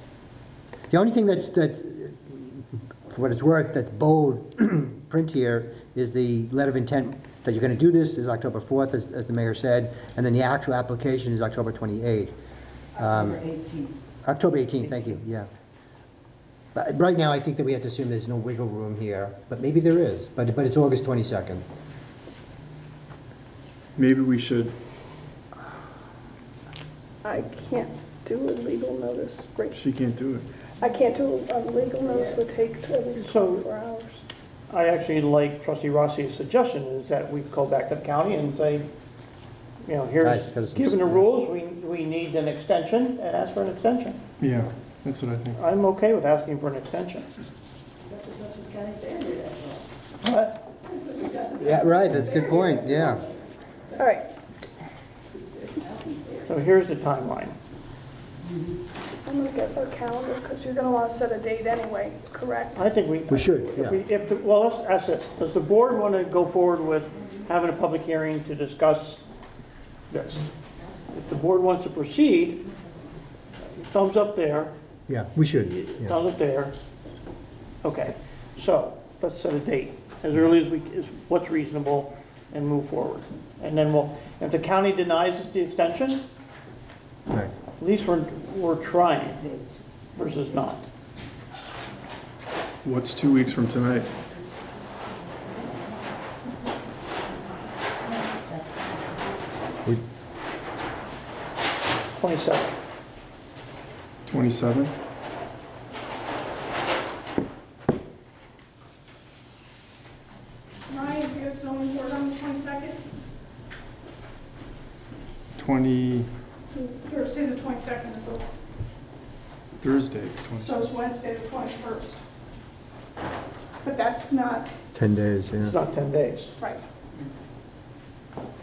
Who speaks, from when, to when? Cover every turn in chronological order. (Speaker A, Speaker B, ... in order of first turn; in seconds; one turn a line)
Speaker A: 0.9-12.3
Speaker A: 13.0-13.4
Speaker B: 13.2-13.9
Speaker A: 14.2-15.5
Speaker A: 16.7-21.6
Speaker C: 24.0-24.7
Speaker D: 27.2-29.8
Speaker C: 29.7-30.5
Speaker D: 30.8-34.2
Speaker E: 33.2-33.6
Speaker E: 34.7-38.9
Speaker E: 39.9-44.2
Speaker A: 40.2-41.3
Speaker C: 44.4-45.6
Speaker E: 45.6-47.3
Speaker B: 48.2-49.8
Speaker E: 50.2-50.6
Speaker D: 51.0-51.7
Speaker A: 51.6-53.2
Speaker D: 53.9-54.3
Speaker E: 56.5-57.6
Speaker D: 59.2-62.8
Speaker E: 62.8-69.2
Speaker A: 63.3-64.0
Speaker E: 70.1-70.5
Speaker E: 71.1-72.7
Speaker E: 73.6-74.7
Speaker A: 75.1-76.2
Speaker E: 75.7-76.7
Speaker E: 77.8-86.2
Speaker E: 87.8-89.5
Speaker E: 90.1-90.8
Speaker C: 92.8-94.1
Speaker B: 98.0-99.2
Speaker E: 102.2-102.7
Speaker C: 104.3-104.9
Speaker D: 110.9-113.0
Speaker C: 115.6-116.3
Speaker D: 116.7-118.5
Speaker C: 119.8-120.9
Speaker D: 120.6-122.2
Speaker D: 123.8-124.7
Speaker A: 124.9-125.8
Speaker E: 125.6-126.6